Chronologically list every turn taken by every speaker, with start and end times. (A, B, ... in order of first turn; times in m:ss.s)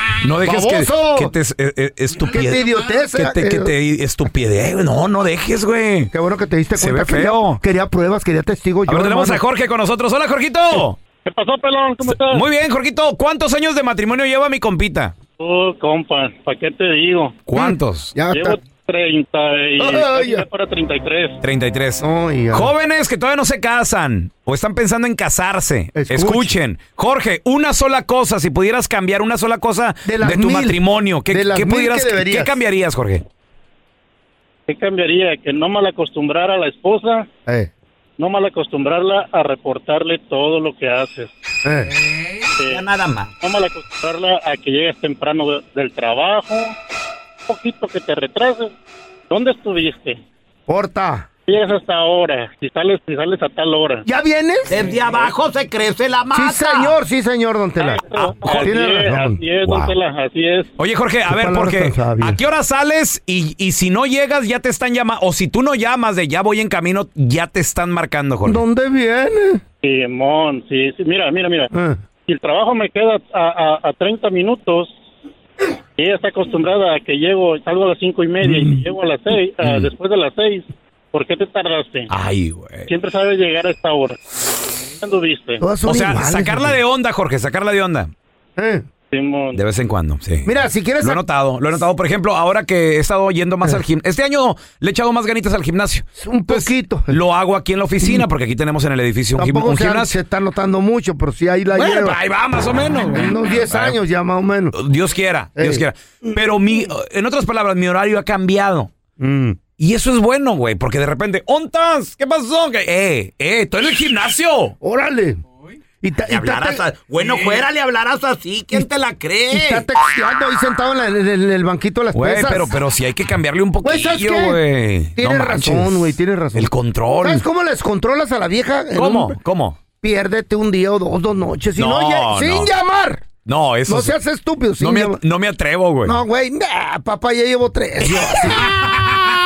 0:00.2-0:06.1 A
0:00.4-0:01.3 B
0:02.3-0:03.7 B
0:06.1-0:09.4 B
0:06.8-0:07.6 A
0:08.9-0:11.0 A
0:11.2-0:12.4 C
0:12.1-0:15.1 A
0:15.4-0:17.4 C
0:17.5-0:18.1 A
0:17.5-0:18.6 B
0:18.3-0:21.4 C
0:19.8-0:20.4 B
0:21.4-0:33.2 A
0:22.0-0:22.7 B
0:25.9-0:26.5 B
0:30.0-0:32.5 B
0:34.7-0:37.3 C
0:38.2-0:41.3 C
0:41.6-0:41.9 B
0:42.6-0:42.8 C
0:42.6-0:43.3 A
0:43.4-0:46.8 C
0:47.5-0:48.7 C
0:49.3-0:50.2 C
0:50.7-0:51.3 B
0:51.5-0:54.0 C
0:54.0-0:54.8 B
0:54.7-0:57.0 A
0:56.3-0:59.4 B
0:57.8-1:00.7 C
0:58.4-0:59.9 A
1:00.8-1:08.6 A
1:01.3-1:02.4 B
1:08.4-1:09.6 B
1:09.8-1:11.7 C
1:11.7-1:12.0 B
1:12.3-1:14.9 C
1:16.0-1:22.1 C
1:18.4-1:18.8 B
1:19.6-1:19.9 A
1:22.1-1:22.9 A
1:22.9-1:24.2 C
1:25.0-1:25.6 C
1:25.6-1:26.8 B
1:25.9-1:28.1 A
1:28.6-1:28.8 B
1:29.1-1:29.6 C
1:29.5-1:40.1 A
1:30.4-1:31.2 B
1:36.2-1:37.2 B
1:38.0-1:38.2 B
1:39.4-1:42.2 B
1:41.8-1:44.0 A
1:43.1-1:44.8 B
1:44.7-1:48.9 A
1:45.6-1:45.8 B
1:49.2-1:49.6 B
1:49.8-1:54.8 A
1:54.8-1:55.4 B
1:56.0-1:56.8 B
1:56.3-1:59.9 A
1:59.5-2:02.7 B
2:02.1-2:07.4 A
2:03.8-2:04.6 B
2:05.2-2:09.4 B
2:08.9-2:09.8 A
2:10.0-2:13.3 B
2:11.8-2:12.7 A
2:13.4-2:14.1 A
2:13.9-2:15.2 B
2:14.8-2:16.2 A
2:16.0-2:18.8 B
2:18.0-2:19.1 A